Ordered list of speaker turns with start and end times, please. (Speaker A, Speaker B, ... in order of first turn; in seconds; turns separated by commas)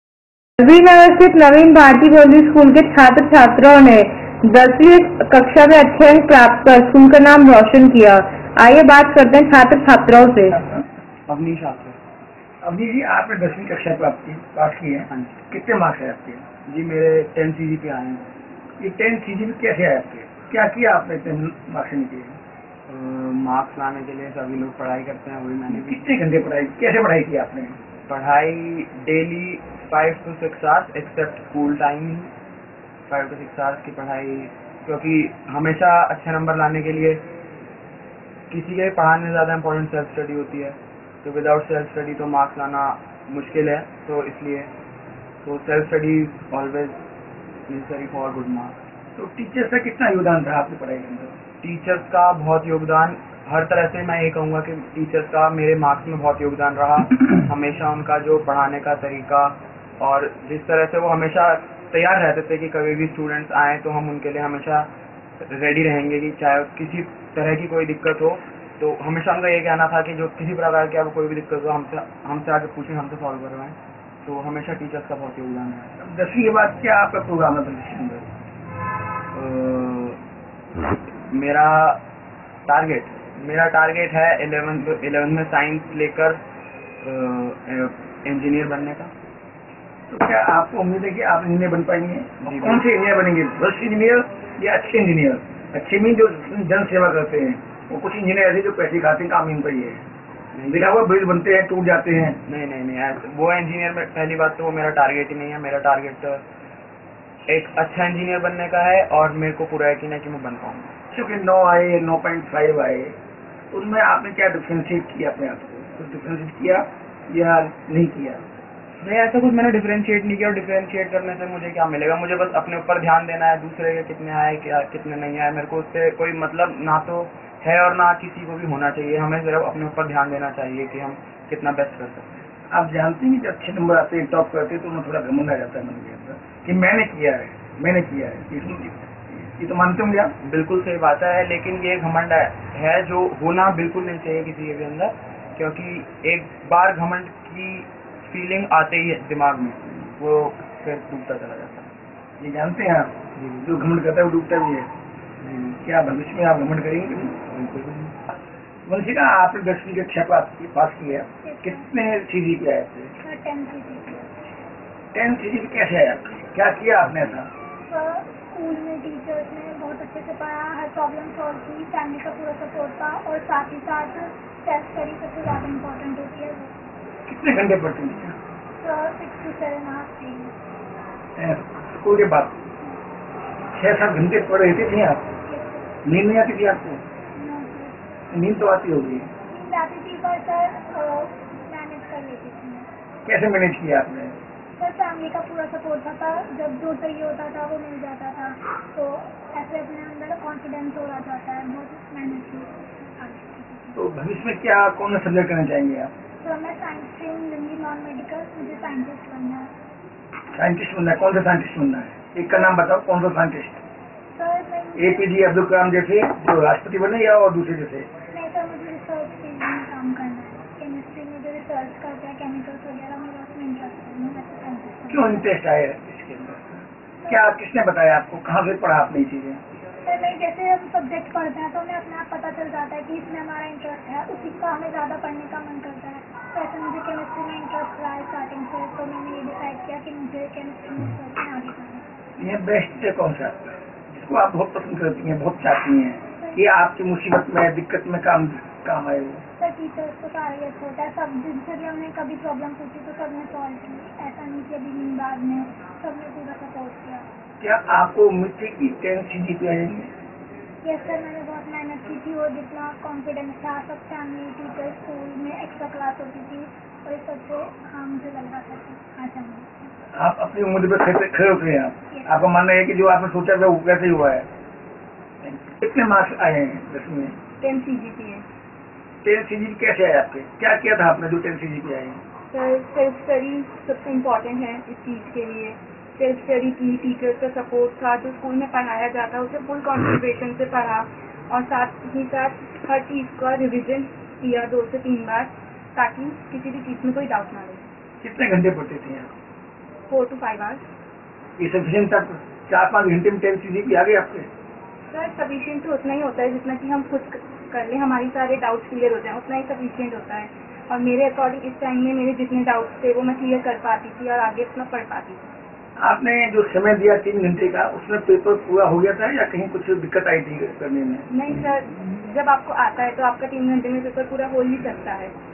Speaker A: 0.6-10.5, Speaker B: 10.5-10.8, Speaker C: 11.3-12.0, Speaker B: 12.6-16.4, Speaker C: 15.1-15.4, Speaker C: 16.7-18.3, Speaker B: 18.8-22.4, Speaker C: 22.9-26.1, Speaker B: 25.7-27.8, Speaker C: 28.1-32.3, Speaker C: 33.1-37.2, Speaker C: 38.5-44.7, Speaker C: 45.4-46.9, Speaker C: 47.7-48.8, Speaker B: 49.2-51.4, Speaker C: 51.6-64.9, Speaker C: 65.4-75.9, Speaker B: 76.0-78.2, Speaker C: 79.3-80.2, Speaker C: 81.3-82.0, Speaker C: 82.7-86.4, Speaker C: 87.0-89.1, Speaker B: 90.1-100.0, Speaker C: 92.4-92.8, Speaker C: 100.5-100.9, Speaker B: 100.7-102.4, Speaker C: 102.5-106.4, Speaker C: 107.5-110.9, Speaker B: 111.1-113.2, Speaker B: 113.7-118.4, Speaker C: 119.0-132.4, Speaker B: 132.7-140.3, Speaker C: 140.4-151.9, Speaker B: 152.4-154.9, Speaker B: 155.5-157.4, Speaker C: 157.5-158.1, Speaker B: 158.9-163.1, Speaker D: 161.4-161.8, Speaker D: 163.2-164.3, Speaker B: 165.1-167.5, Speaker D: 167.9-176.7, Speaker B: 177.2-178.3, Speaker D: 178.8-180.5, Speaker B: 181.4-182.6, Speaker B: 183.7-185.2, Speaker B: 186.0-187.0, Speaker D: 187.4-187.9, Speaker B: 188.3-189.3, Speaker D: 189.6-192.8, Speaker B: 193.2-194.3, Speaker D: 194.8-204.0, Speaker B: 203.9-206.1, Speaker D: 206.4-209.7, Speaker B: 210.5-213.8, Speaker D: 214.3-215.3, Speaker B: 214.9-218.1, Speaker D: 218.3-225.4, Speaker B: 225.1-229.6, Speaker D: 230.1-242.0, Speaker B: 242.4-249.4, Speaker D: 249.6-257.2, Speaker B: 257.6-260.1, Speaker D: 260.8-269.7, Speaker B: 270.1-274.5, Speaker B: 275.4-277.4, Speaker E: 277.6-278.4, Speaker B: 279.2-282.2, Speaker E: 282.5-297.9, Speaker B: 298.2-299.3, Speaker E: 300.1-300.8, Speaker B: 301.6-304.5, Speaker E: 305.1-315.4, Speaker B: 316.0-321.3, Speaker E: 321.3-325.3